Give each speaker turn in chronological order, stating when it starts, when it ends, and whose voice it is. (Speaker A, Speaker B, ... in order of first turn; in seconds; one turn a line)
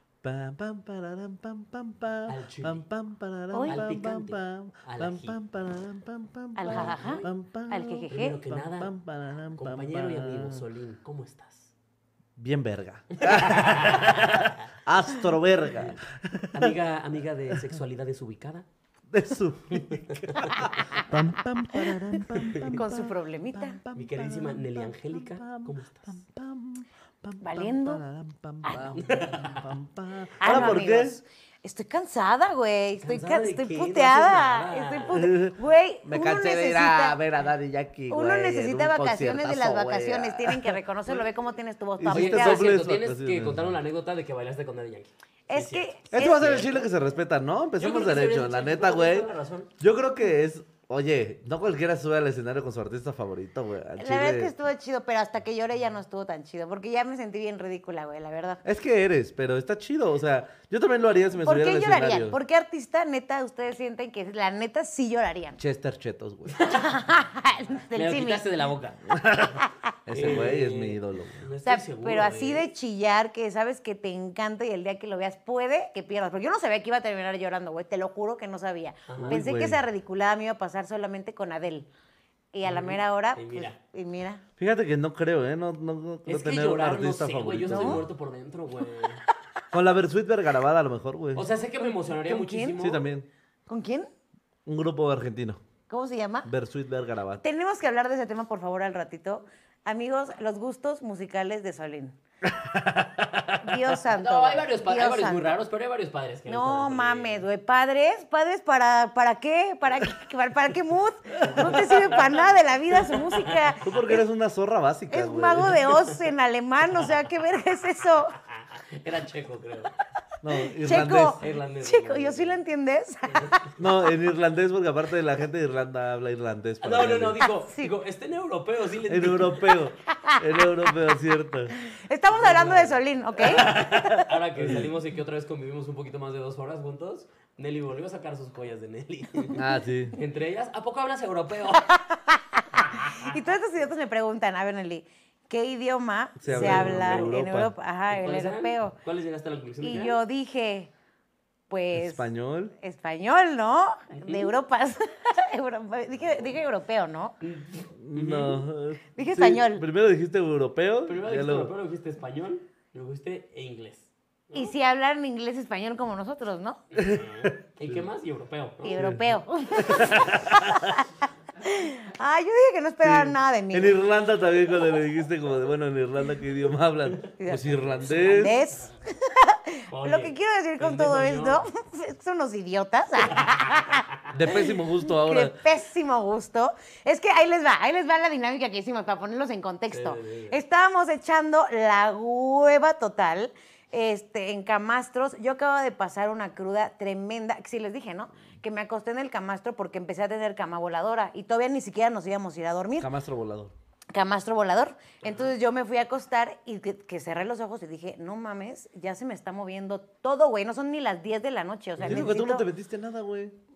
Speaker A: 0.2-10.6
Speaker B: 2.3-2.8
Speaker C: 3.5-3.8
Speaker B: 3.7-5.4
Speaker C: 6.5-8.4
Speaker B: 6.7-7.2
Speaker B: 8.1-8.9
Speaker B: 9.6-11.7
Speaker A: 12.4-16.8
Speaker B: 13.1-14.6
Speaker B: 16.5-18.7
Speaker A: 17.5-17.8
Speaker A: 19.1-31.2
Speaker B: 19.7-21.0
Speaker C: 20.6-21.1
Speaker B: 22.4-22.8
Speaker C: 22.6-23.8
Speaker B: 23.9-26.2
Speaker C: 27.4-28.0
Speaker C: 28.6-29.1
Speaker B: 28.9-29.7
Speaker C: 30.4-37.2
Speaker B: 33.0-35.3
Speaker A: 35.1-40.8
Speaker C: 38.1-42.7
Speaker A: 42.0-43.7
Speaker B: 42.1-46.7
Speaker C: 45.5-46.6
Speaker A: 46.1-49.3
Speaker B: 47.8-49.7
Speaker A: 49.8-54.5
Speaker C: 54.0-58.6
Speaker A: 58.6-62.4
Speaker C: 61.4-65.6
Speaker A: 65.6-66.6
Speaker C: 66.7-68.4
Speaker B: 67.9-69.0
Speaker A: 69.0-71.5
Speaker C: 69.6-69.9
Speaker B: 70.1-72.7
Speaker C: 71.6-81.9
Speaker B: 79.1-79.4
Speaker A: 79.2-79.8
Speaker C: 82.5-84.4
Speaker B: 82.7-83.8
Speaker A: 84.6-88.0
Speaker B: 86.3-89.2
Speaker C: 87.7-88.0
Speaker A: 89.7-91.5
Speaker B: 91.3-93.0
Speaker C: 91.8-92.8
Speaker A: 92.8-93.3
Speaker C: 93.7-94.1
Speaker A: 94.7-95.6
Speaker C: 95.9-96.5
Speaker A: 96.5-97.4
Speaker C: 97.4-102.2
Speaker A: 102.4-103.3
Speaker C: 103.6-105.6
Speaker B: 104.1-107.5
Speaker C: 106.5-114.2
Speaker B: 111.6-112.3
Speaker A: 113.8-115.9
Speaker C: 115.1-118.4
Speaker B: 119.0-119.9
Speaker A: 120.4-121.4
Speaker C: 120.8-124.0
Speaker B: 121.0-122.6
Speaker B: 123.3-123.6
Speaker A: 123.8-127.4
Speaker B: 126.8-129.8
Speaker C: 127.6-128.0
Speaker A: 129.1-131.7
Speaker C: 130.1-130.4
Speaker C: 131.7-134.1
Speaker B: 132.3-141.9
Speaker A: 133.7-134.9
Speaker A: 139.6-140.2
Speaker C: 141.7-149.0
Speaker B: 142.9-143.3
Speaker A: 146.4-147.7
Speaker B: 146.5-147.3
Speaker B: 148.1-150.2
Speaker C: 149.8-150.9
Speaker C: 151.7-157.4
Speaker A: 151.9-152.7
Speaker B: 154.1-154.5
Speaker B: 157.4-158.6
Speaker A: 158.0-161.7
Speaker C: 159.2-159.8
Speaker B: 161.1-164.7
Speaker C: 164.5-166.8
Speaker A: 166.9-168.0
Speaker B: 167.0-169.1
Speaker C: 168.8-174.0
Speaker A: 168.9-171.0
Speaker A: 173.0-178.6
Speaker C: 177.4-184.1
Speaker B: 177.7-178.0
Speaker B: 179.9-181.6
Speaker B: 183.2-184.4
Speaker A: 184.3-185.6
Speaker C: 184.6-203.1
Speaker B: 189.9-190.6
Speaker A: 203.0-203.7
Speaker C: 204.1-212.7
Speaker B: 205.2-205.5
Speaker B: 212.0-212.3
Speaker A: 212.0-213.6